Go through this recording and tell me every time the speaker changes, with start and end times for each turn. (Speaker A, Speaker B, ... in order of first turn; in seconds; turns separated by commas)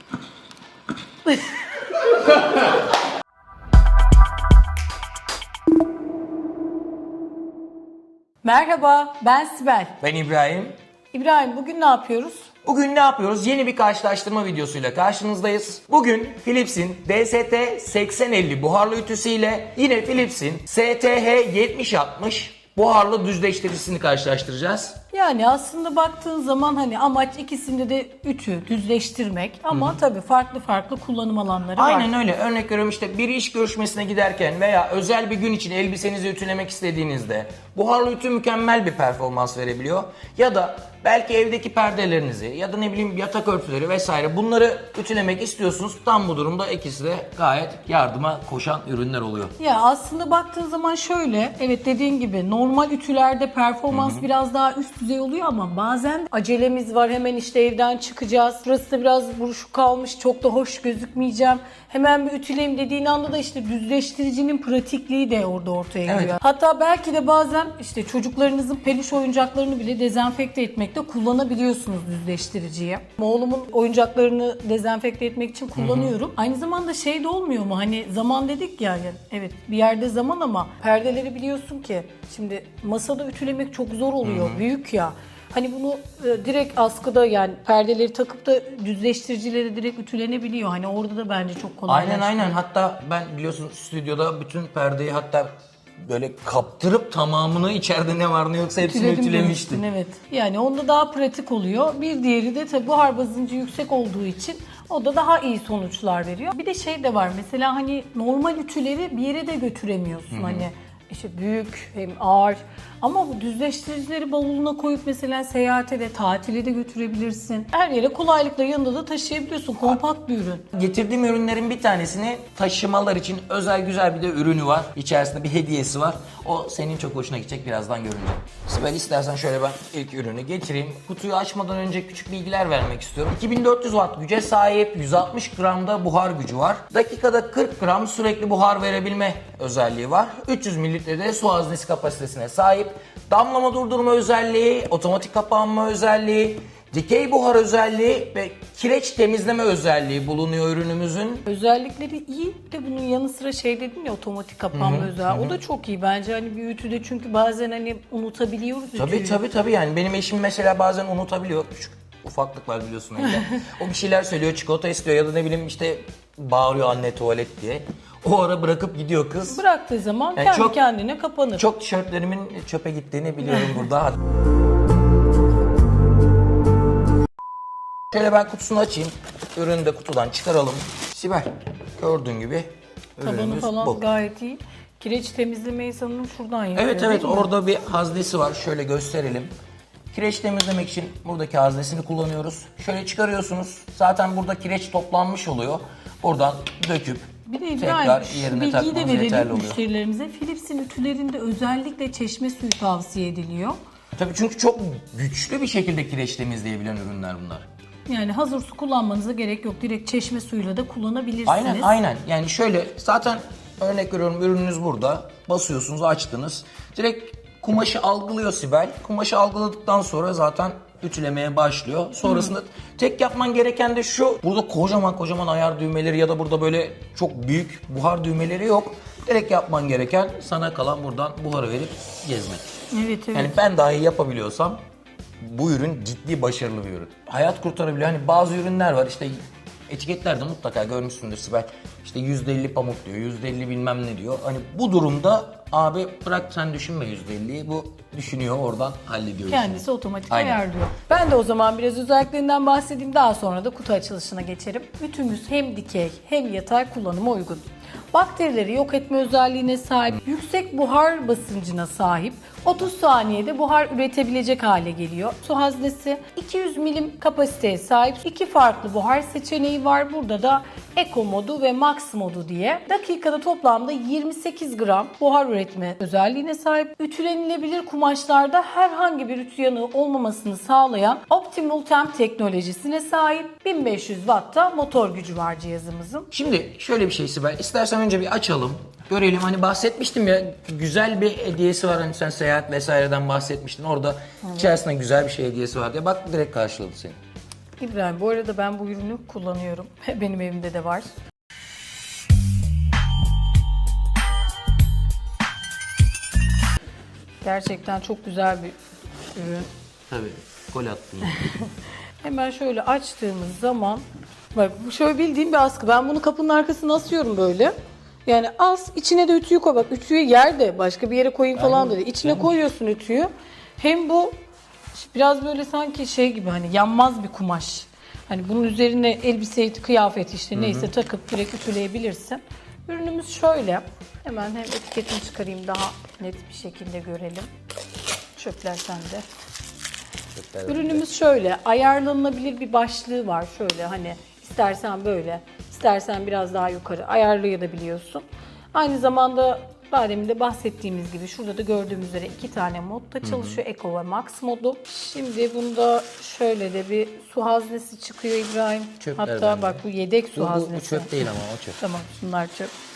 Speaker A: 1.2-1.6, Speaker A: 8.4-9.9, Speaker B: 10.0-10.7, Speaker A: 11.1-12.5, Speaker B: 12.6-25.0, Speaker A: 25.1-32.1, Speaker B: 29.7-30.0, Speaker B: 31.7-49.5, Speaker A: 49.6-92.5, Speaker B: 53.9-54.3, Speaker B: 66.0-66.4, Speaker B: 75.7-76.2, Speaker B: 84.2-84.6, Speaker B: 91.9-99.8, Speaker A: 98.8-120.7, Speaker B: 110.3-110.7, Speaker B: 120.7-151.4, Speaker A: 151.5-159.4, Speaker B: 154.7-155.5, Speaker B: 158.9-169.6, Speaker A: 163.2-163.6, Speaker A: 169.4-171.6, Speaker B: 170.3-170.8, Speaker B: 171.6-174.2, Speaker A: 173.5-173.8, Speaker B: 178.1-184.0, Speaker A: 183.2-187.5, Speaker B: 186.8-189.5, Speaker B: 190.1-199.8, Speaker A: 197.4-203.8, Speaker B: 204.2-207.7, Speaker A: 208.1-211.9, Speaker B: 211.4-232.7, Speaker A: 222.2-222.5, Speaker A: 232.9-233.6, Speaker B: 233.3-234.8, Speaker B: 235.4-250.6, Speaker A: 249.5-286.3, Speaker B: 286.3-297.2, Speaker A: 294.4-294.7, Speaker A: 297.8-301.1, Speaker A: 307.4-308.8, Speaker A: 309.3-309.7, Speaker B: 310.1-311.4, Speaker A: 312.2-317.7, Speaker A: 318.2-324.4, Speaker B: 321.5-322.5, Speaker A: 324.9-337.5, Speaker B: 330.6-330.9, Speaker A: 338.3-339.3, Speaker B: 340.3-341.0, Speaker A: 340.7-361.2, Speaker B: 353.2-353.6, Speaker B: 359.0-359.8, Speaker B: 360.3-361.8, Speaker A: 361.8-362.7